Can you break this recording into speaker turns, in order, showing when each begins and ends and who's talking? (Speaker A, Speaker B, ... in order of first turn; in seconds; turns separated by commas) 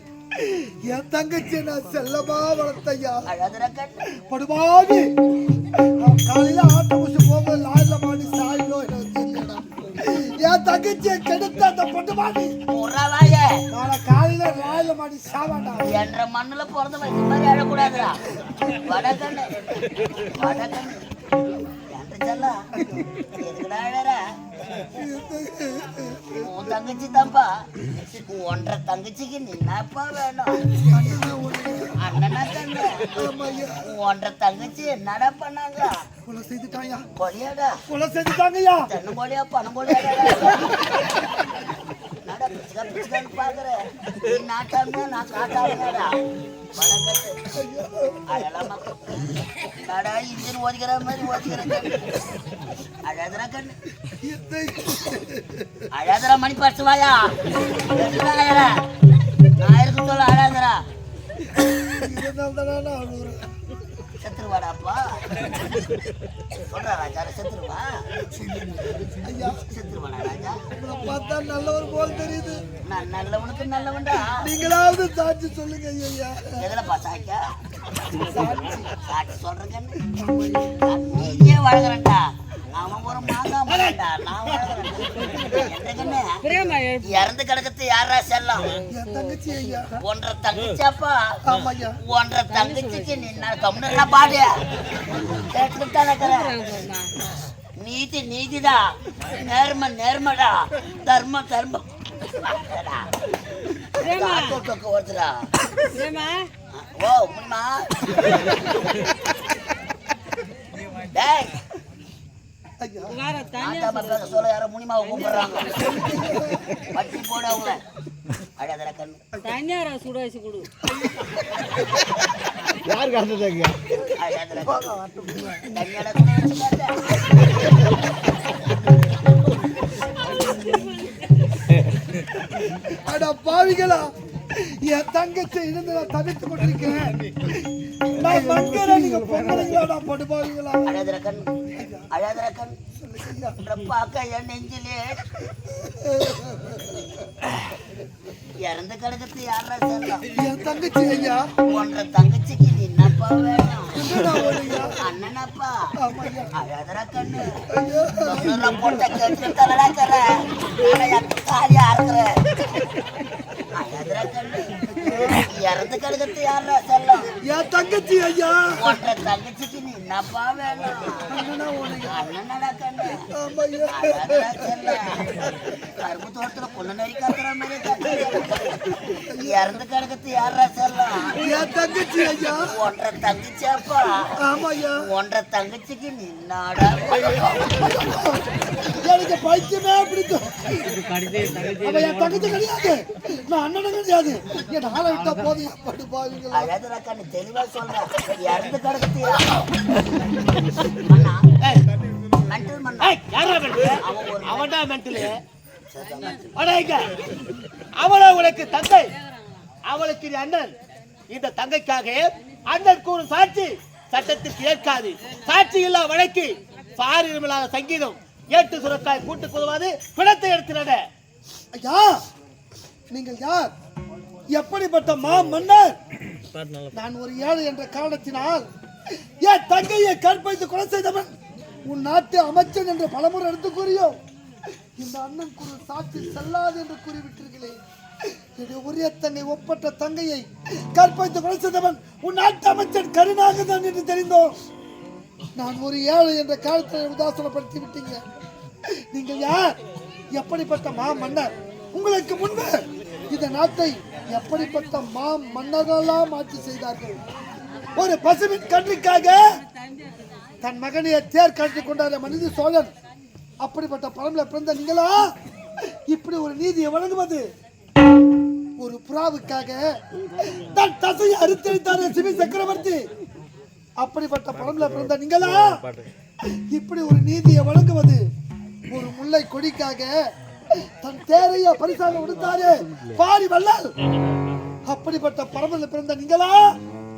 Speaker A: 0.3-3.2, Speaker B: 3.3-4.0, Speaker A: 4.3-5.0, Speaker A: 5.8-12.5, Speaker B: 12.7-13.5, Speaker A: 13.7-16.0, Speaker B: 15.8-18.2, Speaker B: 18.8-19.5, Speaker B: 20.2-21.0, Speaker A: 20.4-20.7, Speaker B: 21.9-22.6, Speaker A: 22.8-23.1, Speaker B: 23.4-24.2, Speaker A: 24.9-26.3, Speaker B: 26.4-30.6, Speaker A: 30.8-31.9, Speaker B: 32.0-33.1, Speaker A: 33.1-33.8, Speaker B: 33.8-36.0, Speaker A: 36.2-37.1, Speaker B: 37.1-37.8, Speaker A: 37.9-38.9, Speaker B: 38.9-40.9, Speaker B: 42.2-46.1, Speaker B: 46.8-47.4, Speaker A: 47.5-48.2, Speaker B: 48.3-49.3, Speaker B: 49.8-52.2, Speaker B: 53.0-53.8, Speaker A: 54.2-55.6, Speaker B: 55.9-58.8, Speaker B: 59.6-60.8, Speaker A: 61.8-63.4, Speaker B: 64.2-65.5, Speaker B: 66.5-68.0, Speaker A: 69.2-69.6, Speaker B: 69.4-70.6, Speaker A: 70.8-72.6, Speaker B: 72.8-74.5, Speaker A: 74.4-76.5, Speaker B: 76.6-77.4, Speaker A: 78.2-78.9, Speaker B: 78.9-80.0, Speaker A: 80.1-80.8, Speaker B: 80.8-88.8, Speaker C: 83.7-84.0, Speaker D: 86.5-87.0, Speaker A: 88.9-90.0, Speaker D: 89.0-89.5, Speaker B: 90.0-91.4, Speaker A: 91.5-91.9, Speaker B: 92.0-94.6, Speaker B: 95.4-96.7, Speaker D: 96.3-97.1, Speaker B: 97.8-103.1, Speaker B: 104.0-105.5, Speaker D: 104.0-104.5, Speaker D: 105.9-106.5, Speaker B: 106.7-108.6, Speaker B: 111.1-111.6, Speaker A: 112.8-113.2, Speaker D: 113.1-114.2, Speaker B: 113.5-116.0, Speaker A: 115.9-116.6, Speaker B: 116.8-117.8, Speaker B: 118.6-119.2, Speaker D: 119.5-120.7, Speaker B: 121.4-121.8, Speaker C: 123.0-123.7, Speaker B: 124.1-124.9, Speaker B: 125.6-127.6, Speaker A: 132.7-137.1, Speaker A: 138.1-140.9, Speaker B: 140.8-141.5, Speaker A: 141.7-142.1, Speaker B: 142.1-142.7, Speaker A: 143.0-143.6, Speaker B: 143.6-145.3, Speaker A: 145.8-146.8, Speaker B: 148.6-150.5, Speaker A: 150.3-151.5, Speaker B: 151.6-154.0, Speaker A: 154.0-154.9, Speaker B: 154.7-155.7, Speaker A: 156.0-156.5, Speaker B: 156.6-157.6, Speaker A: 157.7-158.5, Speaker B: 158.2-162.3, Speaker B: 163.7-167.3, Speaker A: 165.0-165.4, Speaker A: 167.4-168.9, Speaker B: 168.8-171.3, Speaker A: 171.3-172.2, Speaker B: 172.1-173.2, Speaker A: 173.3-174.5, Speaker B: 173.9-175.2, Speaker B: 175.9-178.8, Speaker A: 179.3-179.5, Speaker B: 179.4-181.4, Speaker A: 181.4-182.7, Speaker B: 182.6-184.4, Speaker A: 184.4-184.9, Speaker B: 185.0-187.7, Speaker A: 187.7-190.9, Speaker D: 191.4-191.7, Speaker A: 191.7-196.7, Speaker B: 196.5-199.7, Speaker B: 200.9-201.4, Speaker B: 202.4-203.2, Speaker C: 203.0-205.3, Speaker B: 204.0-204.7, Speaker B: 205.9-206.7, Speaker C: 206.6-207.1, Speaker C: 208.0-209.1, Speaker C: 209.9-210.7, Speaker C: 211.3-221.0, Speaker A: 221.7-222.2, Speaker A: 223.1-223.7, Speaker A: 224.5-225.9, Speaker A: 226.9-228.6, Speaker A: 229.4-231.3, Speaker A: 231.9-234.1, Speaker A: 235.0-237.8, Speaker A: 238.6-244.5, Speaker A: 245.6-248.2, Speaker A: 249.1-249.8, Speaker A: 250.3-257.2, Speaker A: 257.9-259.4, Speaker A: 260.6-262.9, Speaker A: 263.6-265.2, Speaker A: 266.1-267.4, Speaker A: 268.8-269.9, Speaker A: 270.4-273.0, Speaker A: 274.0-275.7, Speaker A: 276.7-278.2, Speaker A: 278.9-280.1, Speaker A: 280.8-283.9, Speaker A: 284.9-286.7